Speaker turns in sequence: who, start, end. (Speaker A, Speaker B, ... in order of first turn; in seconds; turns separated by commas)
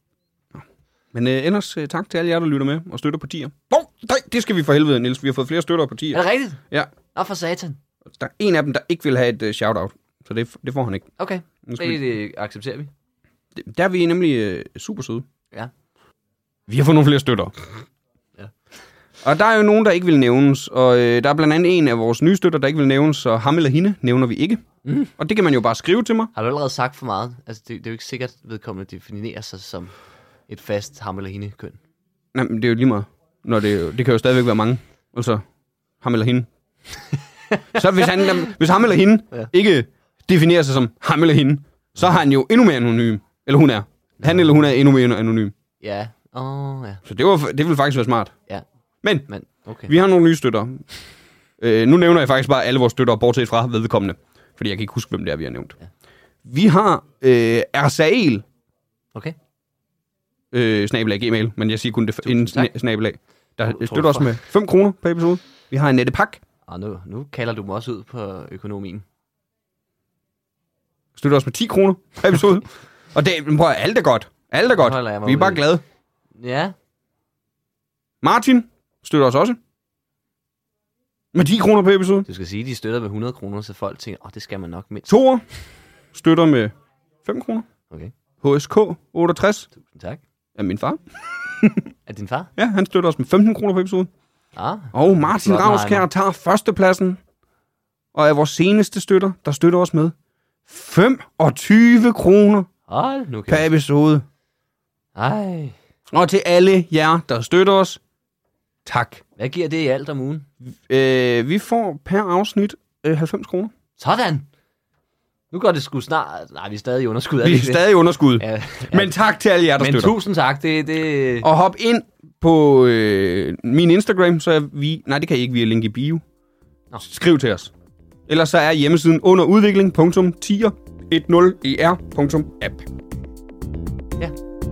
Speaker A: 1.1-6.9, Speaker B: 6.1-7.8, Speaker A: 8.1-11.1, Speaker B: 11.2-12.9, Speaker A: 11.7-12.0, Speaker A: 13.6-15.3, Speaker A: 16.7-17.8, Speaker A: 19.2-24.6, Speaker B: 24.9-25.1, Speaker A: 25.2-26.3, Speaker B: 26.3-29.9, Speaker B: 30.5-31.8, Speaker A: 32.3-35.4, Speaker A: 36.0-36.5, Speaker B: 37.5-38.5, Speaker A: 37.8-45.5, Speaker B: 45.8-47.0, Speaker A: 47.0-48.4, Speaker B: 49.3-49.9, Speaker A: 49.9-50.9, Speaker A: 51.6-55.7, Speaker A: 56.5-58.5, Speaker A: 60.5-66.4, Speaker B: 62.2-62.7, Speaker B: 63.6-64.4, Speaker B: 66.7-69.0, Speaker A: 71.2-75.8, Speaker B: 74.7-75.7, Speaker B: 76.3-76.7, Speaker A: 78.2-79.6, Speaker A: 81.3-82.3, Speaker B: 82.3-85.1, Speaker A: 85.1-85.4, Speaker A: 86.1-86.7, Speaker A: 87.2-87.7, Speaker A: 88.4-89.7, Speaker B: 89.7-90.2, Speaker A: 90.6-91.9, Speaker B: 92.1-92.5, Speaker A: 92.6-94.1, Speaker B: 94.5-96.1, Speaker A: 94.9-97.2, Speaker A: 98.1-100.2, Speaker A: 100.7-102.7, Speaker B: 102.9-103.7, Speaker A: 103.5-104.2, Speaker B: 105.2-105.8, Speaker A: 106.1-108.0, Speaker A: 108.8-109.2, Speaker B: 109.4-110.5, Speaker A: 110.9-113.7, Speaker B: 114.0-114.5, Speaker B: 115.5-119.2, Speaker A: 117.4-120.2, Speaker B: 119.8-121.5, Speaker A: 121.4-126.2, Speaker A: 127.0-127.7, Speaker A: 128.3-132.8